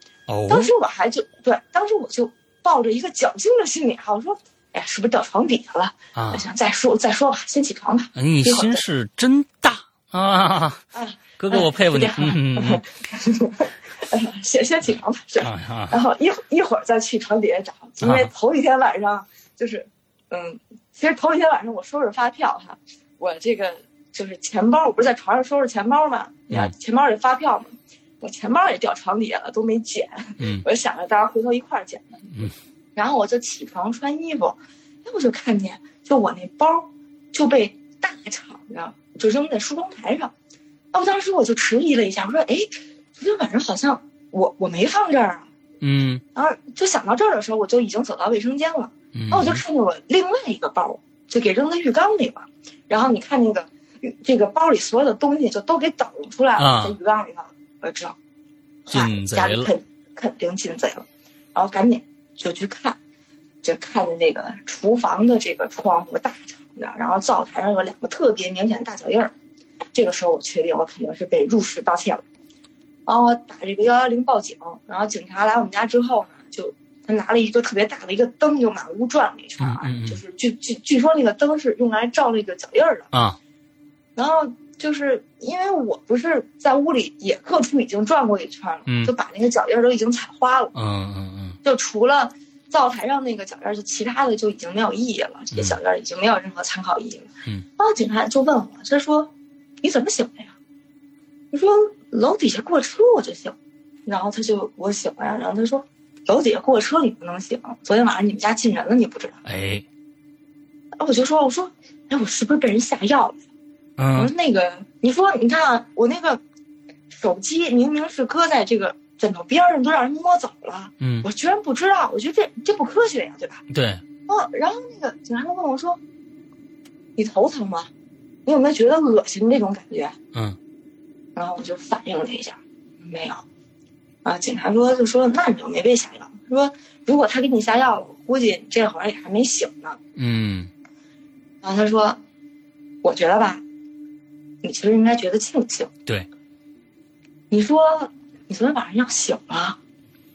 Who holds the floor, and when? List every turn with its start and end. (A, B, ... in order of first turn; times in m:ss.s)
0:00.3-0:00.7 A
0:00.5-0:08.8 B
0:06.2-0:06.4 A
0:08.2-0:10.8 A
0:10.9-0:32.3 B
0:11.4-0:12.8 A
0:15.4-0:16.0 A
0:18.0-0:18.3 A
0:33.0-0:40.3 B
0:40.9-0:45.5 B
0:45.8-0:46.2 A
0:46.3-0:58.2 B
0:49.1-0:49.6 A
0:56.6-0:57.0 A
0:58.9-1:03.0 B
0:58.9-0:59.7 A
1:03.6-1:09.3 B
1:09.9-1:12.2 B
1:13.1-1:23.1 B
1:19.6-1:20.2 A
1:23.1-1:23.4 A
1:24.2-1:30.7 B
1:28.9-1:29.1 A
1:30.7-1:31.6 A
1:31.6-1:40.6 B
1:41.5-1:49.4 B
1:49.4-1:49.8 A
1:51.0-1:53.4 B
1:54.0-1:54.3 A
1:54.2-1:56.4 B
1:57.1-2:03.6 B
2:01.0-2:01.3 A
2:03.7-2:04.0 A
2:04.3-2:06.0 B
2:07.2-2:07.9 B
2:08.5-2:10.2 B
2:11.4-2:13.4 B
2:14.2-2:20.0 B
2:20.2-2:20.7 A
2:21.6-2:22.2 B
2:23.0-2:23.6 B
2:24.6-2:25.9 B
2:27.5-2:29.8 B